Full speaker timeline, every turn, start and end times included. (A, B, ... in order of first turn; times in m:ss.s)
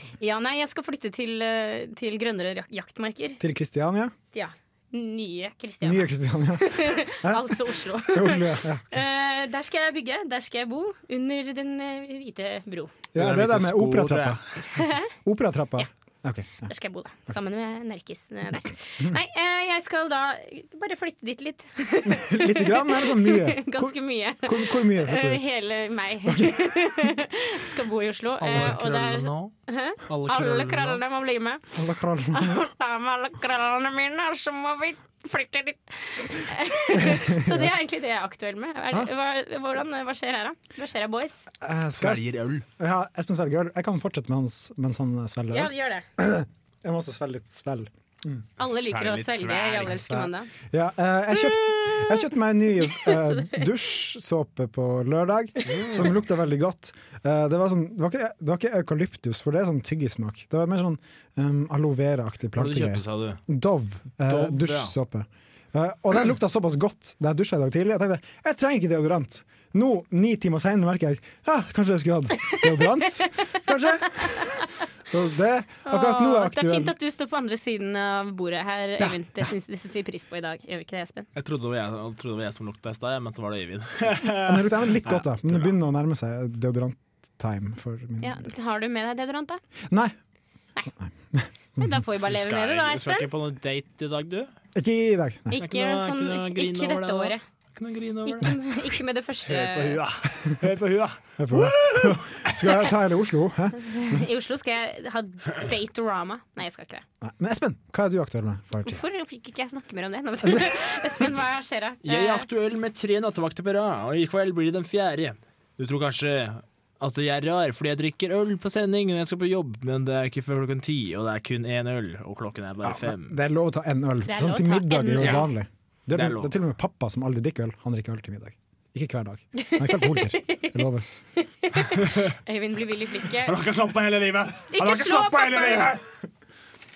0:00.2-0:03.4 A
0:03.4-0:04.1 B
0:04.3-0:12.9 A
0:05.8-0:08.9 B
0:13.1-0:14.4 B
0:13.2-0:14.4 C
0:14.7-0:15.1 A
0:15.1-0:16.7 B
0:16.6-0:31.7 A
0:22.0-0:25.4 B
0:26.2-0:26.7 B
0:28.4-0:29.5 C
0:30.1-0:31.0 C
0:31.8-0:32.6 B
0:32.3-0:41.4 A
0:37.0-0:37.7 B
0:41.6-0:42.2 B
0:42.0-0:42.6 C
0:42.8-0:48.4 B
0:45.5-0:46.0 A
0:48.6-0:50.5 A
0:48.8-0:50.2 C
0:50.7-1:16.9 B
0:51.3-0:52.3 A
0:52.8-0:53.6 A
0:55.7-0:56.1 C
1:02.6-1:03.4 C
1:04.2-1:04.9 C
1:12.5-1:13.5 A
1:14.1-1:14.6 A
1:15.8-1:21.3 A
1:21.3-1:25.7 C
1:24.4-1:28.4 B
1:28.2-1:29.6 A
1:29.9-1:30.1 B
1:30.9-1:32.0 B
1:31.8-1:33.3 A
1:32.2-1:34.5 C
1:34.7-1:35.6 B
1:35.5-1:37.4 A
1:35.5-1:38.5 C
1:38.2-1:40.0 A
1:39.5-1:42.5 C
1:41.4-1:44.2 B
1:43.7-1:47.0 A
1:47.2-1:49.0 B
1:48.8-1:52.5 A
1:52.0-2:03.4 C
2:02.8-2:11.0 B
2:04.2-2:05.5 A
2:06.1-2:06.5 C
2:09.6-2:10.7 A
2:11.6-2:13.6 A
2:13.4-2:16.0 C
2:14.7-2:15.9 A